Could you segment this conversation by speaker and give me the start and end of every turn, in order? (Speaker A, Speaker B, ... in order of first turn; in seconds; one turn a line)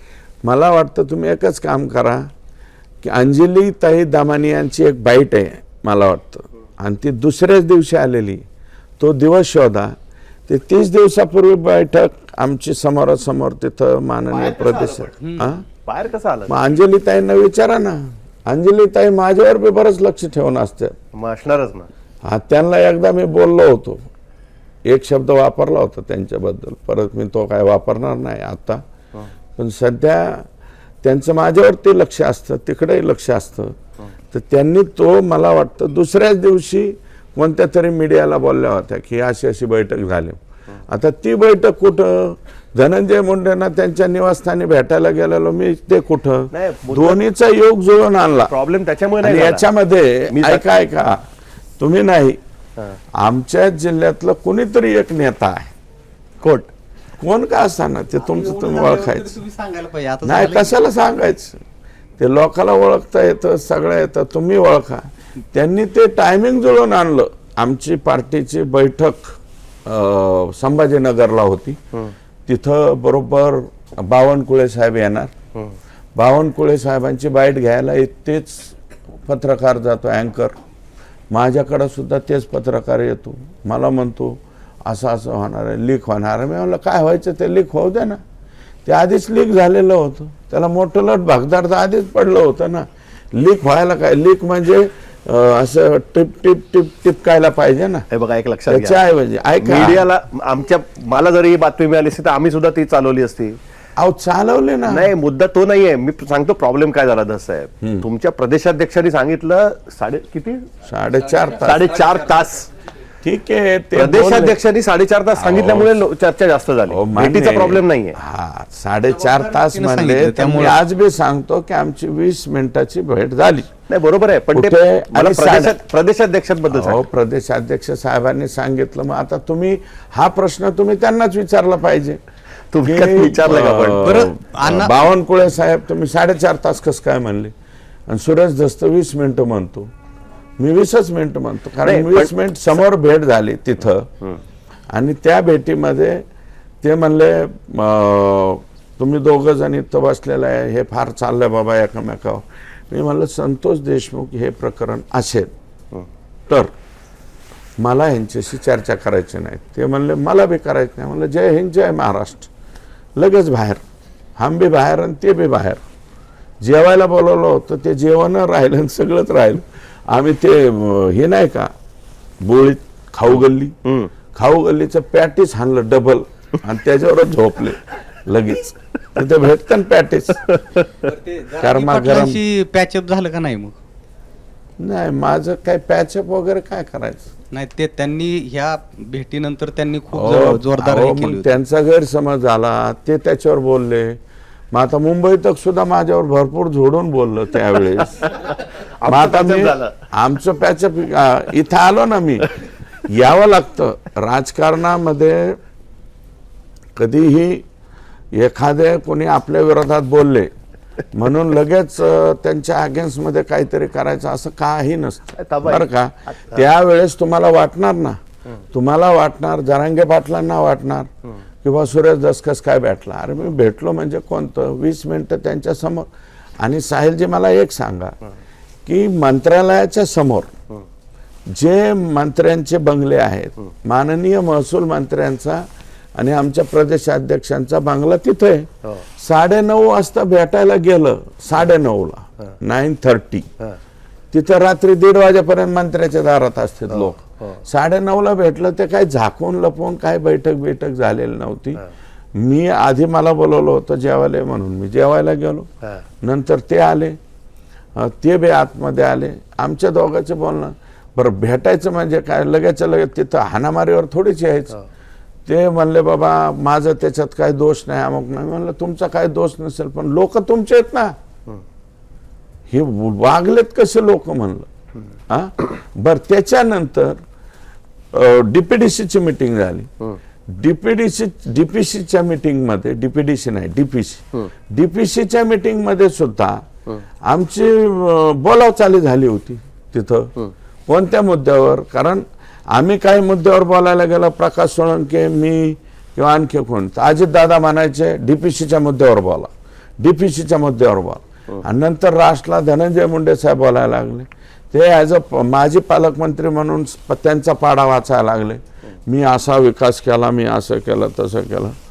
Speaker A: 0.4-2.3
Speaker A: 3.0-8.4
Speaker A: 9.0-9.9
Speaker A: 10.5-15.6
Speaker B: 14.3-16.5
Speaker A: 16.5-20.9
Speaker B: 21.1-21.9
Speaker A: 22.2-24.0
Speaker A: 24.9-28.8
Speaker A: 29.6-30.5
Speaker A: 31.0-33.8
Speaker A: 34.3-48.5
Speaker B: 46.5-47.2
Speaker B: 48.4-49.7
Speaker A: 49.2-51.3
Speaker B: 50.3-50.6
Speaker A: 51.8-52.4
Speaker A: 53.2-55.7
Speaker B: 56.4-56.7
Speaker A: 57.2-59.4
Speaker C: 58.2-60.8
Speaker A: 60.2-61.6
Speaker A: 62.2-71.8
Speaker A: 72.5-75.3
Speaker A: 76.1-80.5
Speaker A: 81.3-88.2
Speaker A: 88.8-98.0
Speaker B: 98.1-99.0
Speaker A: 98.7-100.0
Speaker B: 99.6-103.6
Speaker A: 104.0-105.1
Speaker B: 104.9-110.7
Speaker A: 110.8-111.9
Speaker B: 111.6-112.7
Speaker A: 113.2-114.6
Speaker B: 114.0-118.2
Speaker A: 115.3-116.0
Speaker A: 116.9-123.7
Speaker C: 119.2-120.8
Speaker B: 123.9-127.0
Speaker A: 124.5-125.8
Speaker A: 126.7-132.2
Speaker B: 132.7-134.1
Speaker A: 132.8-137.5
Speaker C: 133.9-135.0
Speaker A: 138.1-139.9
Speaker A: 140.6-144.1
Speaker B: 141.8-142.3
Speaker A: 144.9-146.2
Speaker A: 146.8-155.5
Speaker A: 157.8-162.5
Speaker A: 163.2-163.8
Speaker A: 164.4-165.8
Speaker A: 166.6-171.7
Speaker A: 172.4-173.8
Speaker B: 173.8-174.1
Speaker A: 174.3-180.5
Speaker B: 180.5-180.8
Speaker C: 181.1-183.8
Speaker A: 181.6-182.4
Speaker A: 184.8-187.3
Speaker C: 187.5-191.6
Speaker A: 190.1-194.2
Speaker A: 194.7-198.3
Speaker B: 198.2-199.9
Speaker A: 199.0-205.6
Speaker A: 206.9-207.6
Speaker A: 208.3-210.5
Speaker A: 211.1-218.2
Speaker B: 215.4-216.7
Speaker A: 218.7-221.1
Speaker A: 221.6-226.1
Speaker A: 226.6-228.2
Speaker A: 228.8-230.5
Speaker A: 231.5-243.5
Speaker A: 244.3-251.8
Speaker B: 246.9-247.6
Speaker A: 252.3-255.7
Speaker A: 256.2-257.2
Speaker A: 257.9-264.8
Speaker A: 265.4-271.1
Speaker A: 272.7-274.7
Speaker A: 275.3-277.2
Speaker A: 278.1-279.9
Speaker A: 280.5-286.6
Speaker A: 287.2-290.4
Speaker A: 290.9-311.8